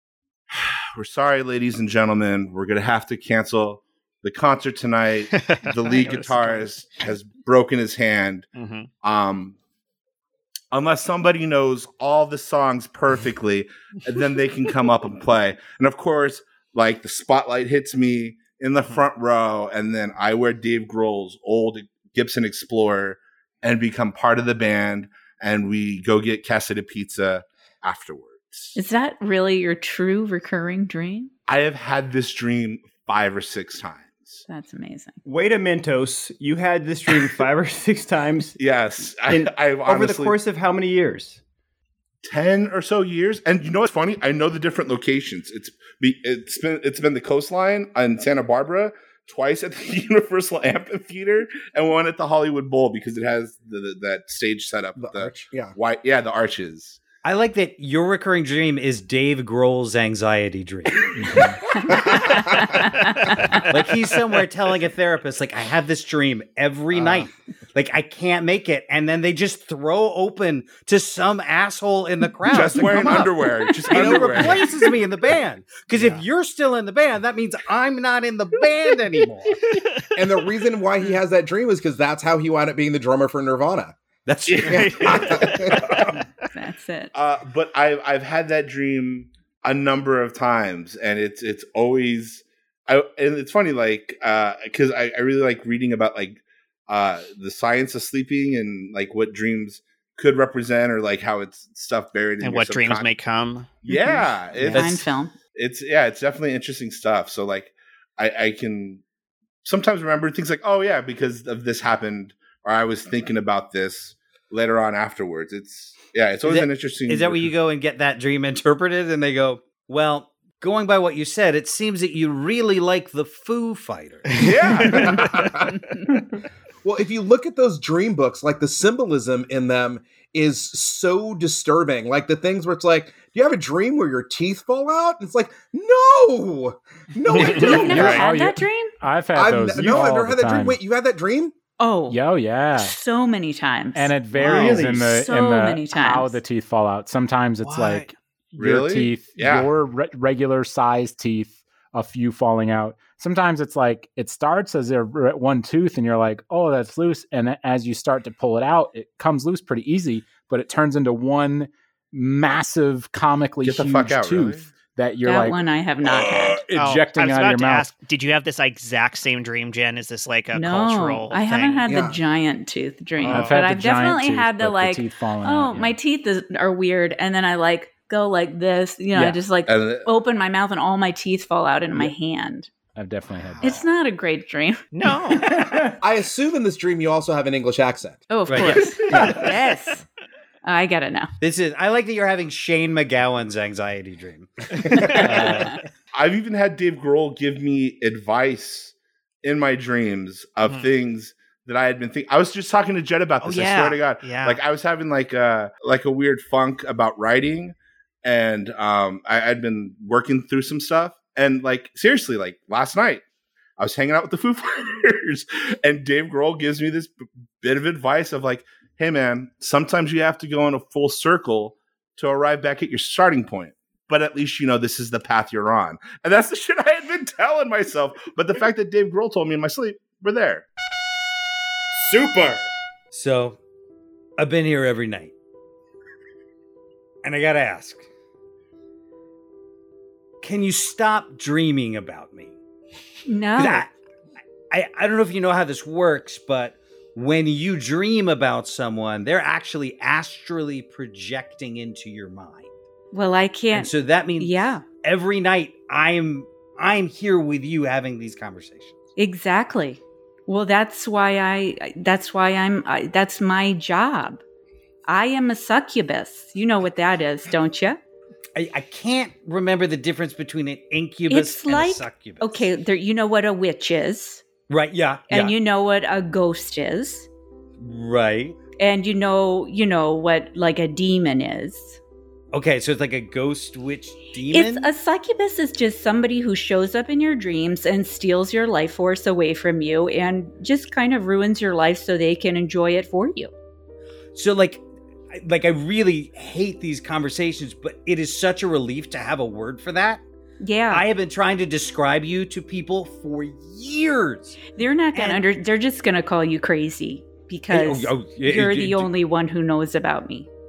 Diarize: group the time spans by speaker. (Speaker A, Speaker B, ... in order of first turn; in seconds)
Speaker A: 0.5-8.4, 9.0-9.6, 10.7-28.8, 31.5-34.4, 38.6-40.3, 42.2-57.0, 66.9-67.2, 72.5-74.8, 84.5-86.2, 87.1-103.1, 103.8-109.0, 109.6-117.5, 124.3-125.5, 148.6-149.7, 163.6-164.7, 173.2-173.5, 179.7-180.2, 196.1-213.2, 213.8-230.7
Speaker B: 5.4-6.7, 8.5-8.9, 63.2-63.5, 84.7-85.8, 102.4-103.8, 137.4-137.7, 147.7-148.0, 166.7-171.8, 184.9-185.5, 203.4-204.6, 305.1-305.4
Speaker C: 28.7-31.3, 34.5-35.2, 61.9-63.3, 86.4-87.1, 103.9-105.3, 137.3-138.9, 141.8-142.2, 142.7-146.4, 165.2-166.6, 170.5-182.7, 183.6-184.8, 188.3-190.0, 190.6-191.3, 243.3-243.8, 253.1-254.8, 259.2-264.4, 265.1-268.0, 271.3-274.4, 275.3-277.3, 278.8-282.0, 284.5-293.5, 300.6-301.0, 304.7-310.5
Speaker D: 35.2-38.6, 39.2-41.4, 144.3-145.1, 185.5-185.9
Speaker E: 55.0-55.7, 73.9-74.6, 80.1-84.0, 85.0-85.9, 124.8-125.5, 126.8-138.2, 139.3-141.5, 171.9-172.2, 186.0-188.2
Speaker F: 57.2-62.2, 63.7-79.7, 84.2-85.3, 116.4-125.0, 144.4-145.0, 188.5-189.4, 191.4-195.8, 232.0-233.6, 234.4-235.3, 237.2-238.0, 240.4-242.5, 243.5-243.9, 244.7-252.7, 253.7-259.0, 268.6-272.7, 274.7-275.5, 277.8-278.6, 282.5-284.9, 294.3-300.2, 300.9-304.6, 307.7-309.1
Speaker G: 61.2-61.5, 137.6-140.8, 142.1-142.9, 143.9-167.9, 173.2-176.0, 182.9-183.8